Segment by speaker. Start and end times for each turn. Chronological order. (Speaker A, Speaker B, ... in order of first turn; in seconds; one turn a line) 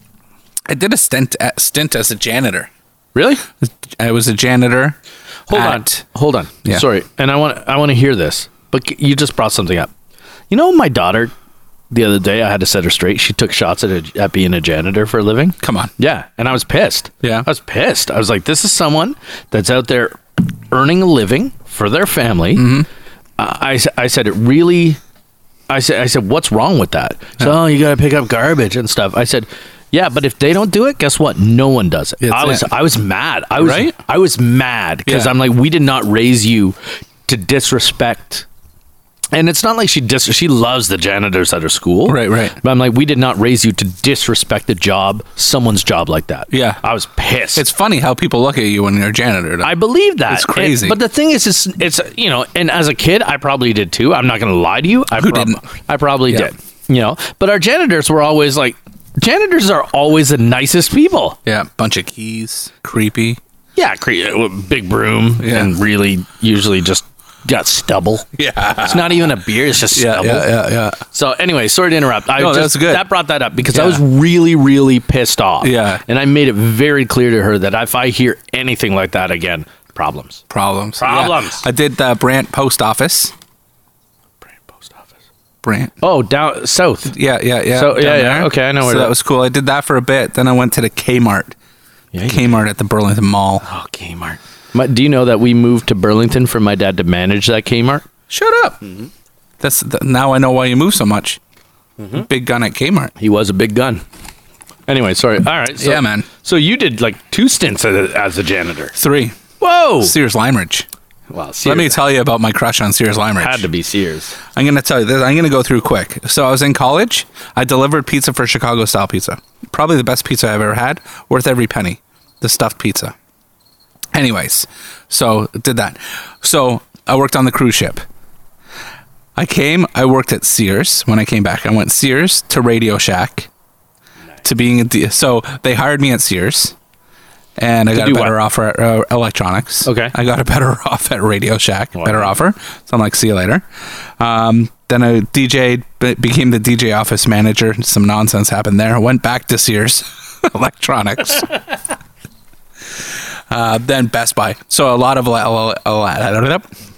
Speaker A: 0.7-2.7
Speaker B: 3.1-3.4
Speaker A: 3.6-5.0
Speaker B: 5.5-9.9
Speaker A: 5.5-6.0
Speaker B: 10.5-11.3
Speaker B: 11.9-22.7
Speaker A: 15.6-15.9
Speaker A: 22.6-22.9
Speaker B: 23.4-25.0
Speaker B: 25.7-38.5
Speaker A: 32.2-32.7
Speaker A: 33.6-33.9
Speaker A: 35.1-35.3
Speaker B: 39.3-47.6
Speaker A: 42.0-42.6
Speaker A: 46.5-46.8
Speaker A: 47.5-51.0
Speaker B: 49.6-61.4
Speaker A: 55.2-55.6
Speaker A: 61.5-63.4
Speaker B: 63.8-68.2
Speaker A: 65.4-65.7
Speaker A: 68.3-69.3
Speaker B: 68.8-70.5
Speaker A: 69.9-71.0
Speaker B: 71.0-80.4
Speaker A: 72.4-73.0
Speaker A: 73.7-74.0
Speaker A: 75.6-76.0
Speaker A: 80.5-83.3
Speaker B: 81.0-81.6
Speaker B: 84.7-85.1
Speaker A: 85.6-85.9
Speaker B: 86.0-87.1
Speaker A: 87.1-91.5
Speaker B: 87.7-89.1
Speaker B: 92.1-92.5
Speaker A: 92.3-93.6
Speaker B: 93.6-98.0
Speaker A: 98.3-98.8
Speaker A: 99.6-101.4
Speaker B: 102.0-102.2
Speaker A: 102.2-103.1
Speaker B: 103.2-104.0
Speaker B: 104.9-109.0
Speaker A: 105.8-106.3
Speaker A: 108.9-109.4
Speaker B: 109.6-110.1
Speaker A: 110.0-110.9
Speaker B: 111.3-112.0
Speaker A: 111.6-113.7
Speaker B: 113.4-114.3
Speaker A: 114.5-123.1
Speaker A: 124.1-128.0
Speaker A: 129.3-133.5
Speaker A: 134.4-136.7
Speaker A: 137.6-143.6
Speaker B: 137.9-138.3
Speaker B: 139.8-140.1
Speaker B: 142.0-142.3
Speaker A: 144.2-151.5
Speaker A: 153.5-156.6